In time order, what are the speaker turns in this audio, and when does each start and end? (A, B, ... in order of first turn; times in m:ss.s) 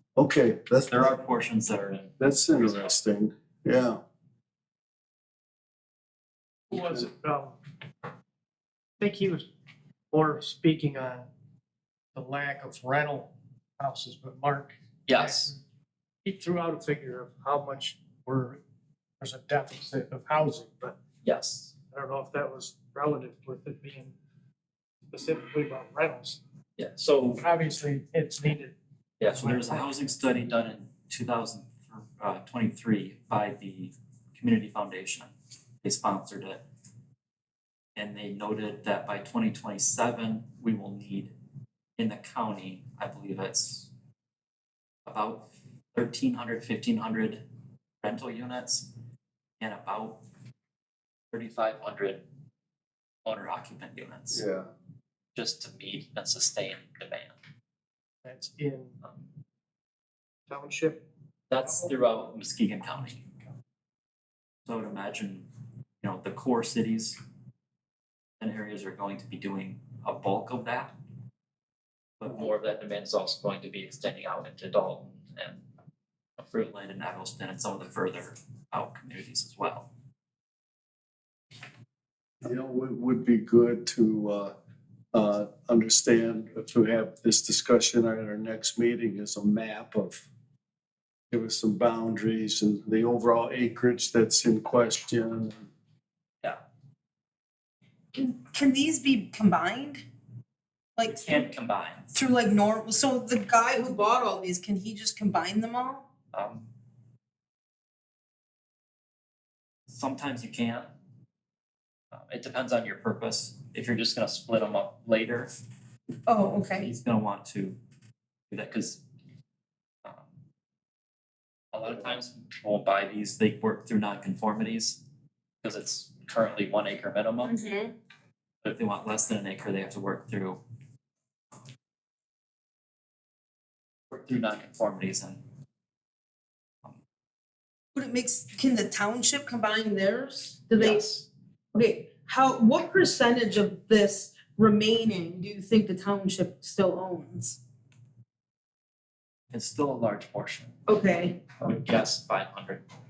0:00.2-0:01.2 A
0:00.9-0:03.0 B
0:02.2-0:04.0 A
0:06.7-0:07.6 C
0:09.0-0:09.5 C
0:10.1-0:11.3 C
0:12.1-0:15.6 C
0:15.1-0:15.5 B
0:16.2-0:18.6 C
0:19.2-0:21.0 C
0:21.2-0:21.7 B
0:21.9-0:24.1 C
0:25.1-0:26.4 C
0:26.8-0:27.5 B
0:27.4-0:28.8 C
0:29.2-0:35.3 B
0:29.3-0:29.9 C
0:35.8-0:36.6 B
0:38.0-0:41.3 B
0:42.0-0:43.9 B
0:45.1-0:47.4 B
0:48.0-0:48.9 B
0:49.6-0:50.2 B
0:51.3-0:52.2 B
0:53.2-0:54.4 B
0:54.3-0:54.7 A
0:55.4-0:57.4 B
0:58.2-0:59.0 C
1:00.5-1:01.0 C
1:01.5-1:03.3 B
1:04.7-1:05.5 B
1:06.0-1:07.2 B
1:08.4-1:11.0 B
1:12.2-1:15.6 B
1:16.4-1:19.9 B
1:22.4-1:24.5 A
1:25.1-1:30.2 A
1:31.3-1:35.6 A
1:38.1-1:40.0 D
1:41.0-1:41.4 D
1:41.1-1:42.1 B
1:42.2-1:46.0 D
1:46.3-1:46.7 B
1:49.9-1:50.9 B
1:52.1-1:55.5 B
1:56.3-1:56.9 D
1:56.8-1:57.8 B
1:58.5-1:59.0 B
2:01.7-2:05.0 B
2:05.6-2:07.6 B
2:07.4-2:07.9 D
2:08.6-2:10.6 B
2:14.1-2:15.4 B
2:18.0-2:21.1 D
2:20.8-2:21.3 B
2:21.7-2:27.6 D
2:29.5-2:30.8 B
2:30.9-2:31.4 D
2:31.6-2:32.8 B